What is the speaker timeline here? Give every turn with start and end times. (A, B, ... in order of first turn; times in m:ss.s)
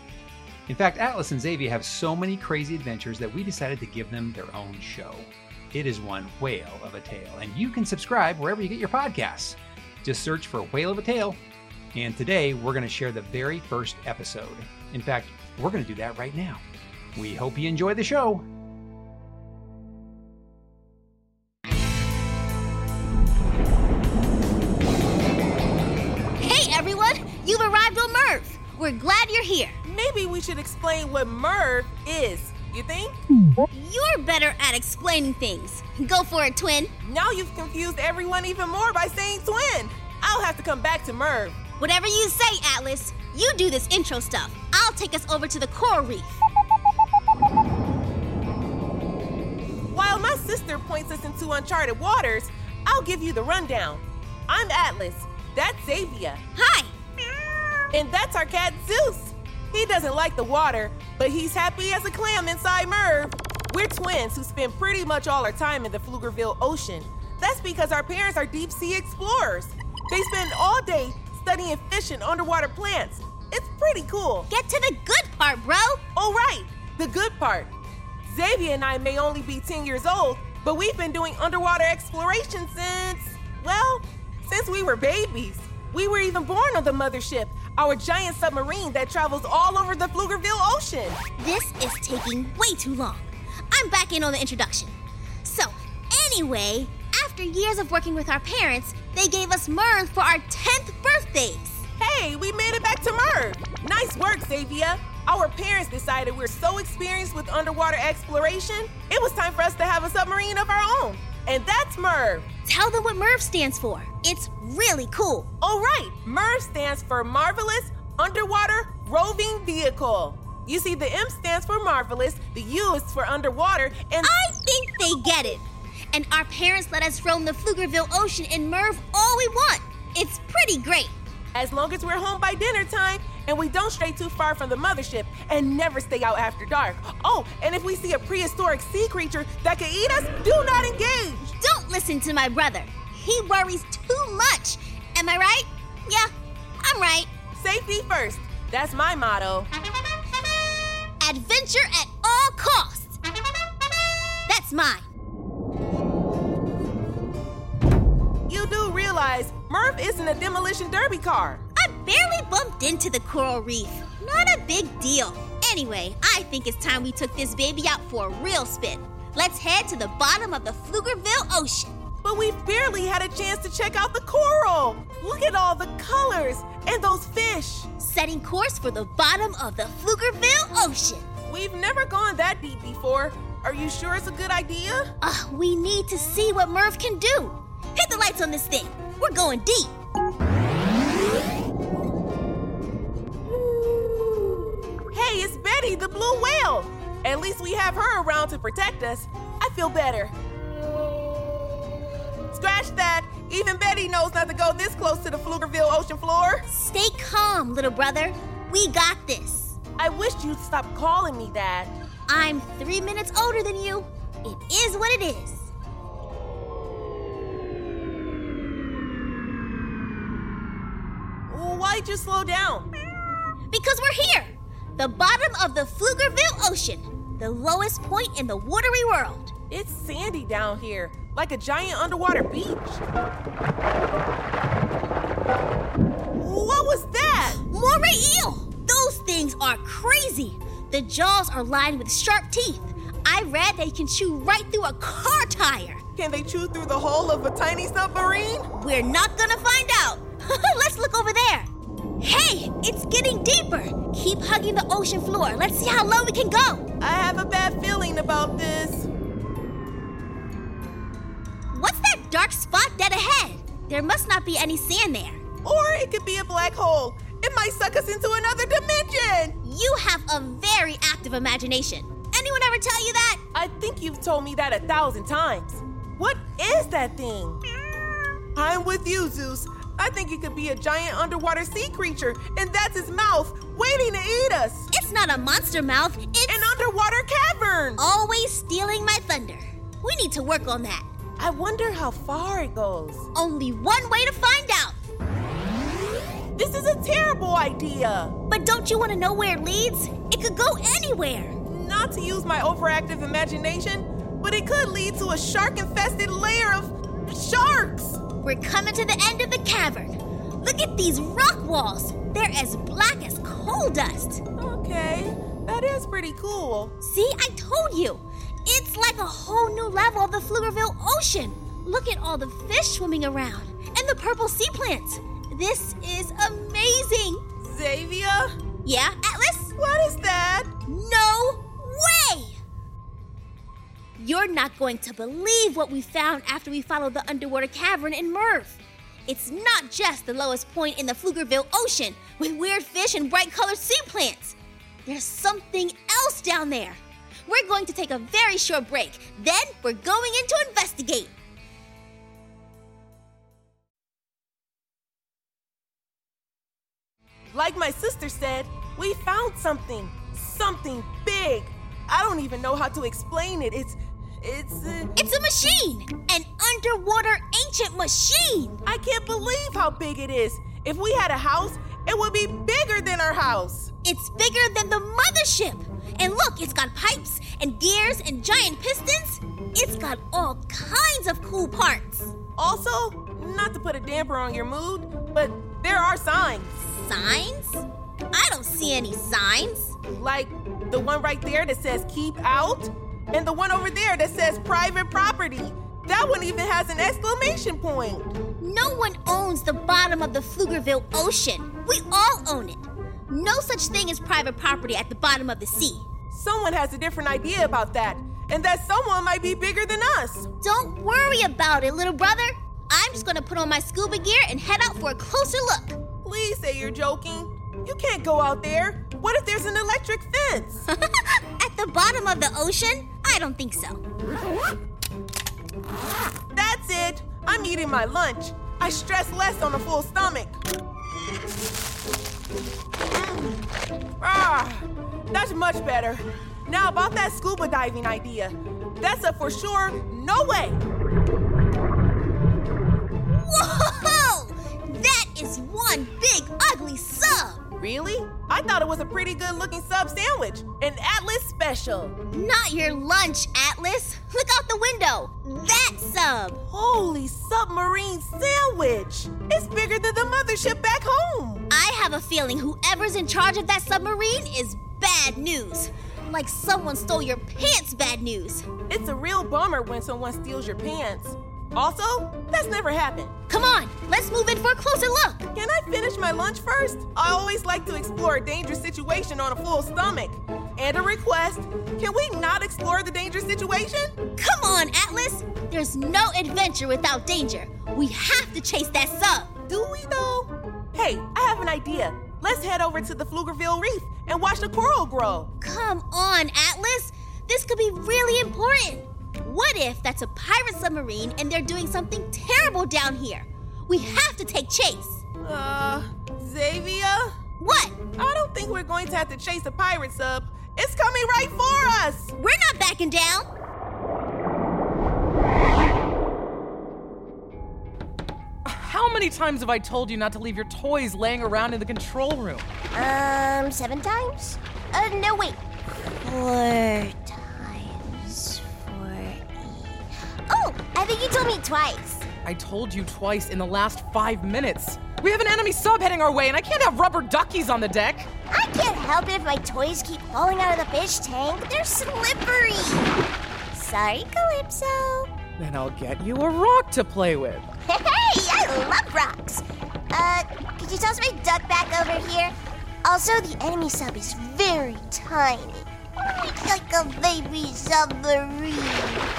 0:00.7-0:11.4 A
0:11.9-0:16.6 A
0:17.2-0:18.4 A
0:26.4-0:29.8 B
0:29.8-0:33.2 C
0:33.7-0:36.9 B
0:37.0-0:41.6 C
0:41.8-0:46.4 B
0:49.9-0:56.4 C
0:56.5-0:56.9 B
0:57.9-1:14.5 C
1:14.5-1:16.0 B
1:16.1-1:17.7 C
1:18.2-1:31.2 C
1:31.4-1:41.8 B
1:42.0-1:52.4 C
1:52.6-1:55.5 B
1:55.6-2:04.3 C
2:04.2-2:11.1 B
2:11.5-2:21.5 C
2:21.6-2:27.3 B
2:27.6-2:29.7 C
2:31.2-2:33.2 B
2:34.5-2:35.0 B
2:38.5-2:41.6 C
2:41.7-2:51.9 B
2:52.2-2:57.9 C
2:58.0-3:01.2 B
3:01.4-3:05.1 C
3:05.2-3:09.9 B
3:15.1-3:20.3 C
3:22.5-3:26.6 C
3:26.7-3:29.8 B
3:30.0-3:31.9 C
3:32.3-3:35.7 B
3:41.5-3:42.9 C
3:43.7-3:49.5 B
3:49.7-3:53.0 C
3:56.4-3:57.6 C
3:57.6-4:06.0 B
4:06.2-4:08.7 C
4:08.7-4:11.7 B
4:12.2-4:16.8 B
4:17.0-4:19.1 C
4:21.7-4:25.4 B
4:25.6-4:29.6 C
4:29.6-4:33.4 B
4:33.5-4:37.6 C
4:38.5-4:44.9 C
4:44.9-4:46.6 B
4:46.5-4:48.0 C
4:48.0-4:51.0 B
4:51.4-4:53.2 C
4:53.3-4:55.0 B
4:56.6-4:58.3 C
4:58.5-5:01.6 B
5:01.6-5:08.2 C
5:08.4-5:14.4 B
5:14.6-5:16.9 C
5:17.0-5:27.4 B
5:27.6-5:28.5 C
5:28.8-5:29.7 B
5:29.8-5:30.7 C
5:30.9-5:32.6 B
5:34.2-5:51.3 B
5:57.5-6:05.1 C
6:05.2-6:08.8 B
6:08.8-6:13.9 C
6:14.0-6:22.3 B
6:22.6-6:26.8 C
6:26.9-6:30.0 B
6:30.1-6:38.3 C
6:38.6-6:46.0 B
6:46.3-6:50.5 C
6:50.6-6:56.0 B
6:56.2-7:00.8 C
7:00.9-7:04.0 B
7:06.5-7:10.6 C
7:13.1-7:13.6 C
7:14.2-7:20.8 C
7:23.3-7:27.6 B
7:27.8-7:32.2 C
7:32.3-7:36.6 B
7:36.7-7:41.6 C
7:41.7-7:48.7 B
7:48.9-7:53.3 C
7:53.5-7:55.5 B
7:55.5-8:04.1 C
8:04.4-8:09.5 B
8:09.7-8:15.5 C
8:15.6-8:25.2 B
8:25.4-8:27.3 C
8:27.6-8:28.0 B
8:28.2-8:32.3 C
8:32.4-8:33.5 B
8:38.6-8:42.6 D
8:42.9-8:45.6 E
8:46.2-8:52.2 E
8:52.4-8:58.3 D
8:58.5-9:03.1 E
9:03.7-9:05.3 E
9:05.6-9:07.6 D
9:07.9-9:19.2 E